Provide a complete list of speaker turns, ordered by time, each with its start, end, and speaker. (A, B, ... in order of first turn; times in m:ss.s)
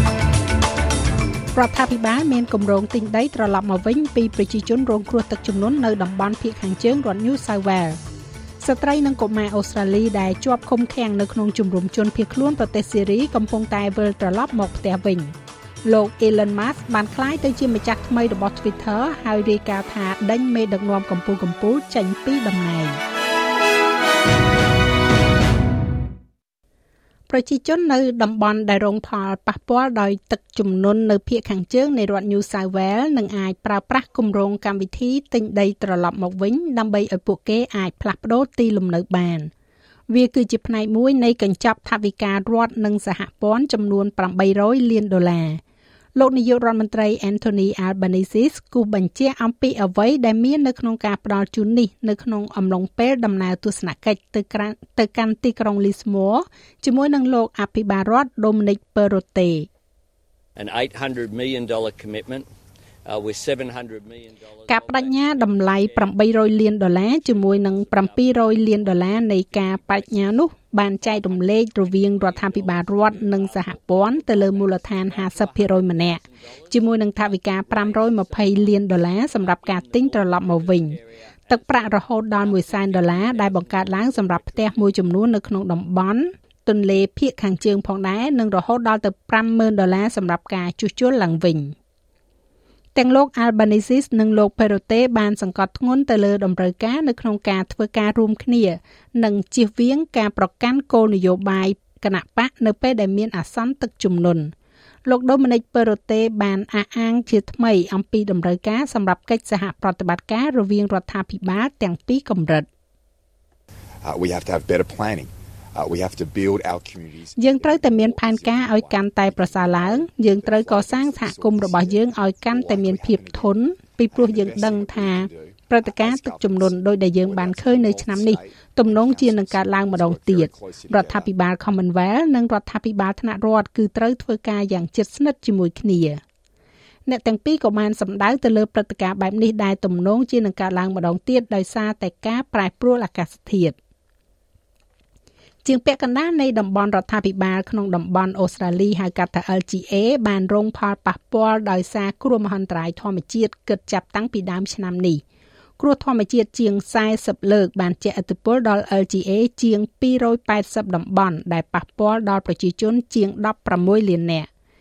0:01.5-0:08.0 A
0:08.6-0:15.3 A
0:15.8-0:23.0 A
0:27.3-0:39.5 A
0:40.1-0:45.6 A
0:46.2-0:59.7 A
1:00.6-1:02.5 B
1:03.1-1:25.1 B
1:04.7-1:21.0 A
1:21.5-1:31.7 A
1:33.0-1:44.5 A
1:45.1-1:52.7 A
1:54.0-2:03.6 C
1:57.4-2:16.2 A
2:04.1-2:11.4 C
2:17.1-2:23.8 A
2:25.6-2:35.2 A
2:35.8-2:44.5 A